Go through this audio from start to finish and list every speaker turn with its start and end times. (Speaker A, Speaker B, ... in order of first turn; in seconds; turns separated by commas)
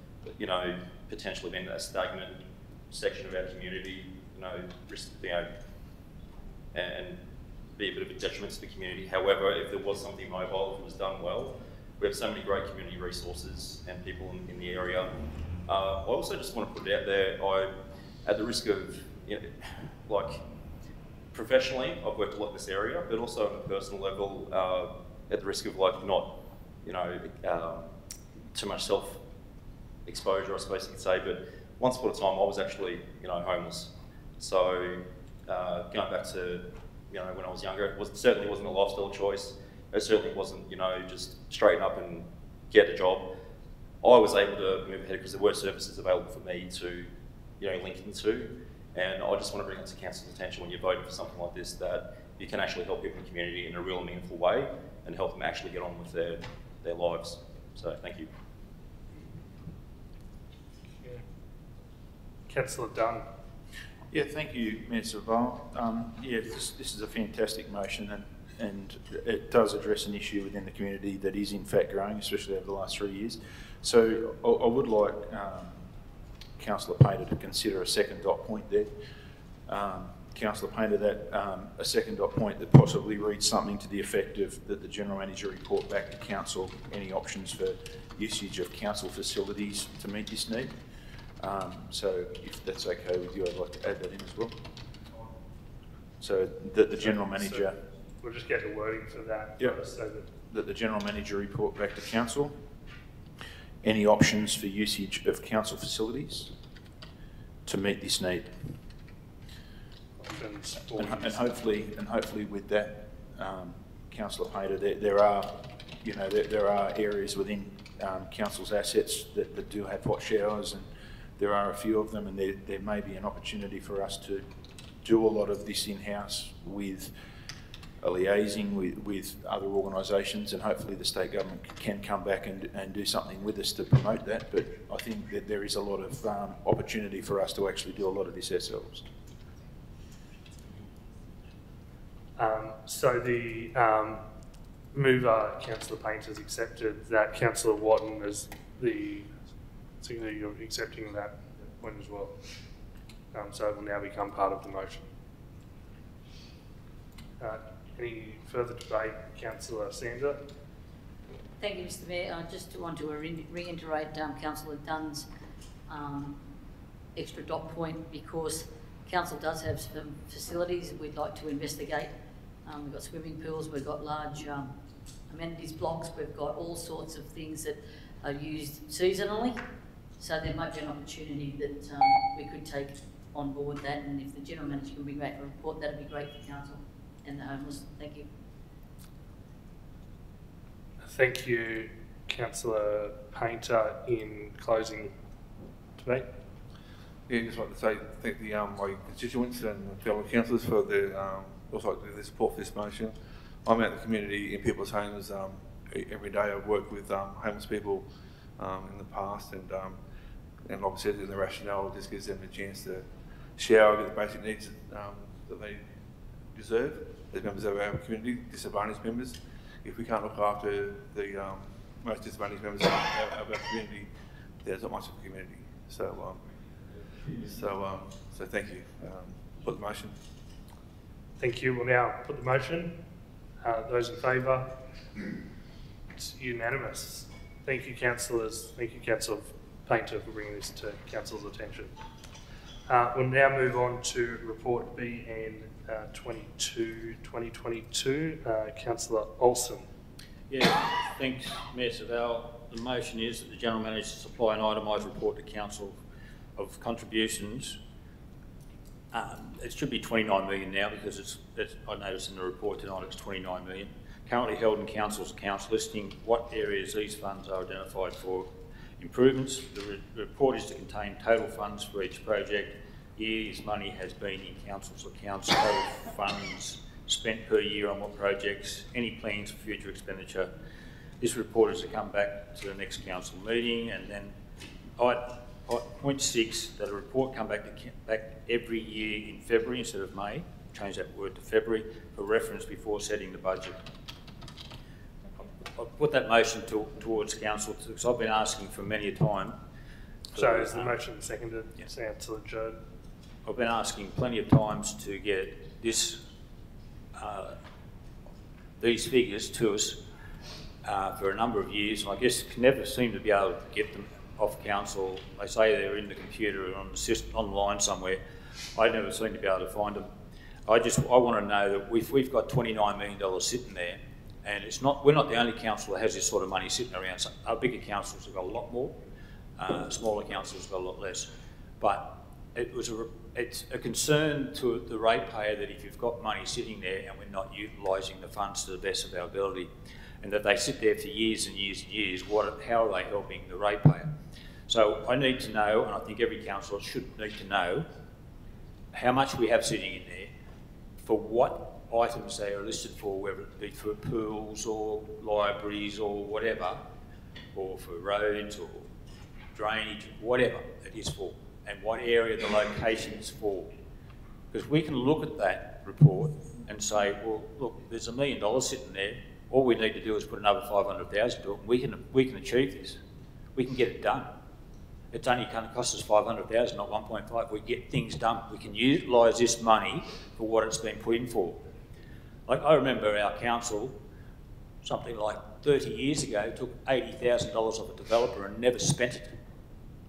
Speaker A: 0.4-5.5, Speaker A: 6.7-7.2, Speaker A: 7.8-15.1, Speaker A: 15.7-17.7, Speaker A: 18.2-19.5, Speaker A: 20.1-20.4, Speaker A: 21.3-27.9, Speaker A: 28.5-29.2, Speaker A: 30.1-43.3, Speaker A: 44.0-58.3, Speaker B: 62.5-63.2, Speaker C: 64.1-75.8, Speaker C: 76.6-78.9, Speaker C: 79.7-90.7, Speaker C: 91.4-94.5, Speaker C: 96.2-97.8, Speaker B: 97.0-100.3, Speaker C: 100.5-102.6, Speaker C: 103.8-106.5, Speaker C: 107.7-108.5, Speaker B: 110.2-111.4, Speaker C: 111.0-120.9, Speaker C: 121.4-124.5, Speaker C: 125.0-127.1, Speaker C: 128.0-139.1, Speaker B: 142.4-144.2, Speaker B: 144.9-149.3, Speaker B: 150.0-152.3, Speaker B: 153.3-155.0, Speaker B: 157.4-160.4, Speaker D: 161.6-165.3, Speaker D: 165.9-166.4, Speaker D: 167.2-172.1, Speaker D: 172.7-174.8, Speaker D: 175.3-179.6, Speaker D: 180.2-188.3, Speaker B: 191.1-195.1, Speaker B: 196.0-196.3, Speaker E: 197.3-210.0, Speaker E: 210.7-215.8, Speaker E: 216.5-226.4, Speaker E: 227.5-230.2, Speaker B: 231.4-232.9, Speaker B: 233.6-234.7, Speaker B: 236.2-241.9, Speaker B: 242.9-249.9, Speaker F: 250.5-256.0, Speaker F: 256.6-257.8, Speaker F: 259.1-268.5, Speaker F: 269.0-280.5, Speaker F: 281.2-284.3, Speaker F: 285.0-293.8, Speaker F: 295.8-299.6, Speaker B: 300.3-302.8, Speaker F: 300.3-300.9, Speaker F: 303.4-306.2, Speaker F: 307.2-307.6, Speaker F: 308.8-310.0, Speaker F: 310.8-318.2, Speaker F: 318.7-320.1, Speaker F: 320.7-329.0, Speaker F: 329.6-339.7, Speaker F: 340.2-344.1, Speaker F: 344.7-347.9, Speaker F: 348.9-350.3, Speaker F: 351.0-356.8, Speaker F: 357.5-358.9, Speaker F: 359.5-363.7, Speaker F: 364.5-373.0, Speaker F: 373.6-374.3, Speaker F: 375.1-381.6, Speaker F: 382.5-384.0, Speaker F: 384.8-389.3